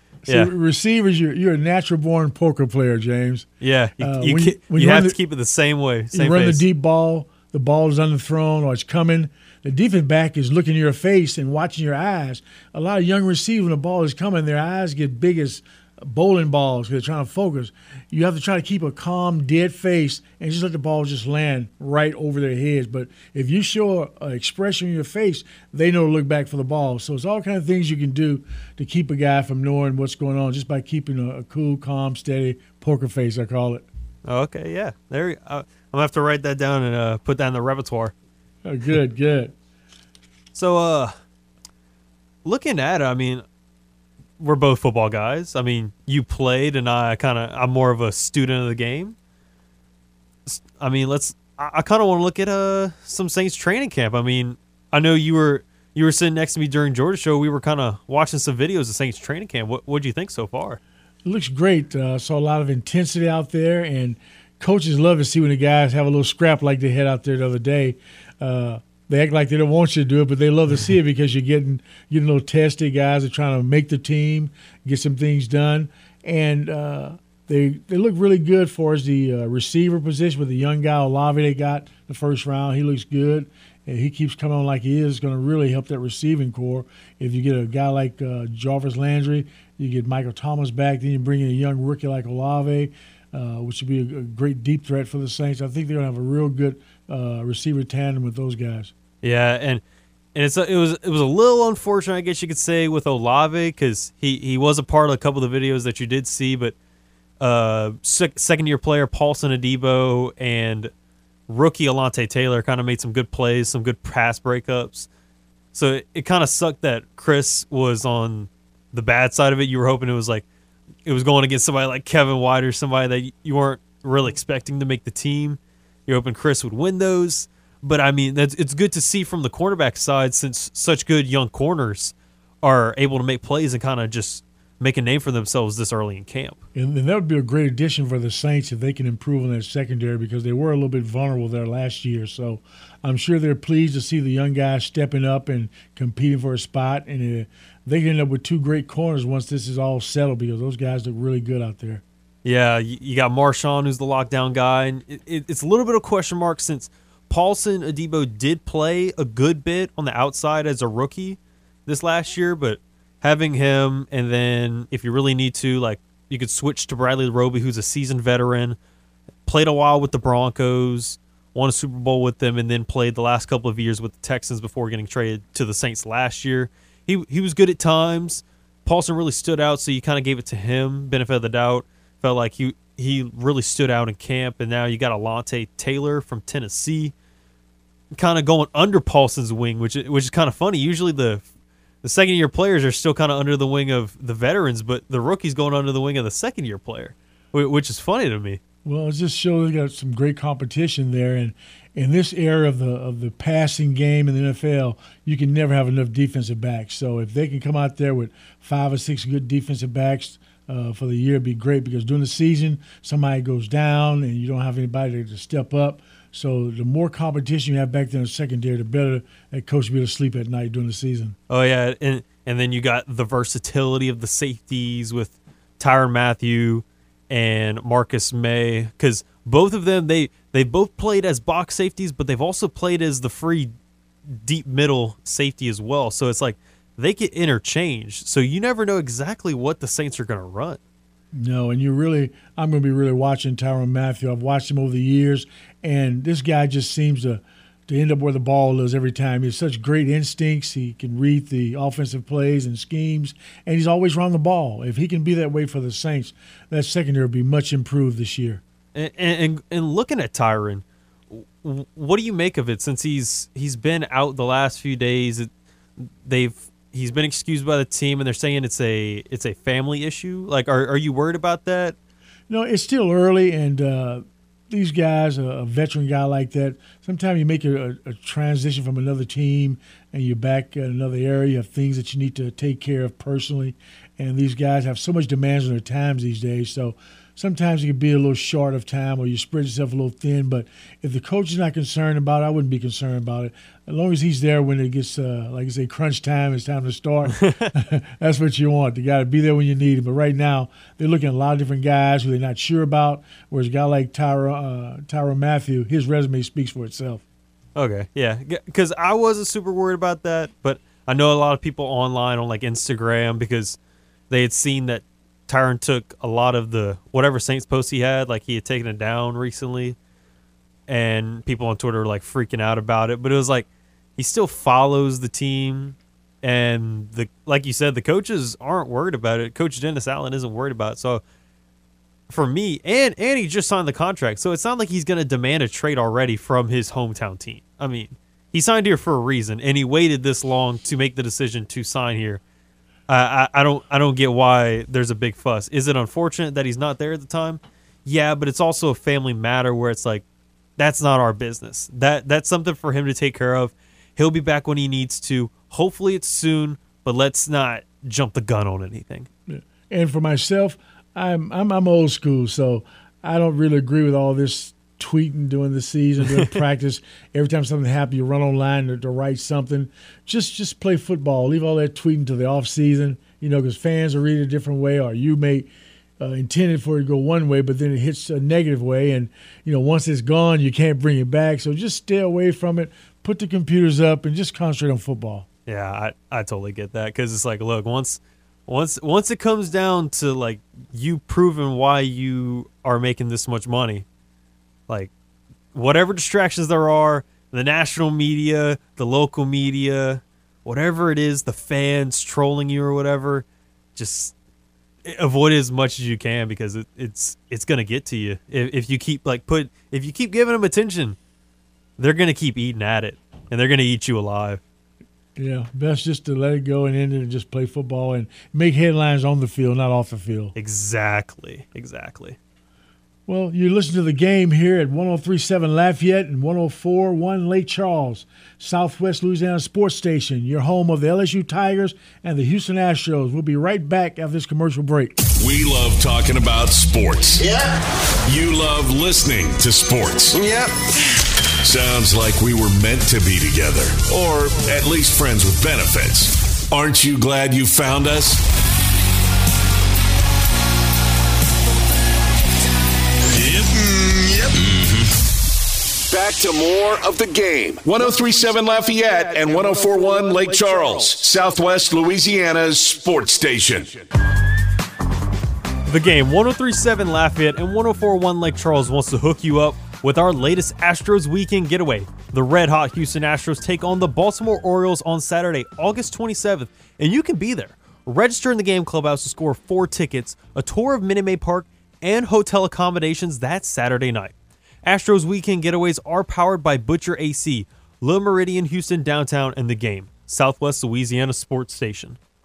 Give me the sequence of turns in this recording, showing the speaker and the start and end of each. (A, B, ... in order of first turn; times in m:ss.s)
0:00.3-0:00.5 A
0:00.3-0:03.5 B
0:03.6-0:06.6 A
0:04.0-0:05.2 B
0:06.1-0:33.8 B
0:34.2-0:38.1 A
0:38.6-0:39.5 B
0:40.5-0:41.1 A
0:42.4-0:43.4 A
0:44.4-0:49.1 A
0:50.4-1:00.8 A
1:01.2-1:38.9 B
1:39.2-1:39.8 A
1:40.3-1:46.7 A
1:47.4-1:50.9 A
1:51.5-1:55.1 A
1:55.7-2:00.4 A
2:01.0-2:16.6 A
2:16.7-2:32.0 B
2:32.4-2:48.8 A
2:49.4-3:07.1 A
3:08.1-3:11.4 A
3:12.0-3:18.6 A
3:18.8-3:41.4 B
3:41.5-3:53.7 A
3:54.3-4:00.8 A
4:01.3-4:18.6 B
4:18.9-4:32.0 A
4:32.5-5:07.2 B
4:57.4-4:57.7 A
5:07.7-5:13.8 A
5:14.3-5:20.0 A
5:20.9-5:31.2 A
5:32.3-5:42.4 A
5:43.1-5:50.2 A
5:50.8-5:59.3 A
5:59.5-6:25.5 B
6:25.7-6:34.0 A
6:35.7-6:43.4 A
6:44.0-6:44.3 A
6:45.0-6:51.2 A
6:52.0-6:54.6 A
6:55.4-7:00.5 B
7:00.5-7:02.4 A
7:03.3-7:15.2 B
7:15.4-7:17.5 C
7:18.2-7:20.5 C
7:21.6-7:28.4 C
7:33.4-7:33.6 C
7:34.5-7:35.1 C
7:36.1-7:44.0 C
7:45.9-8:12.2 A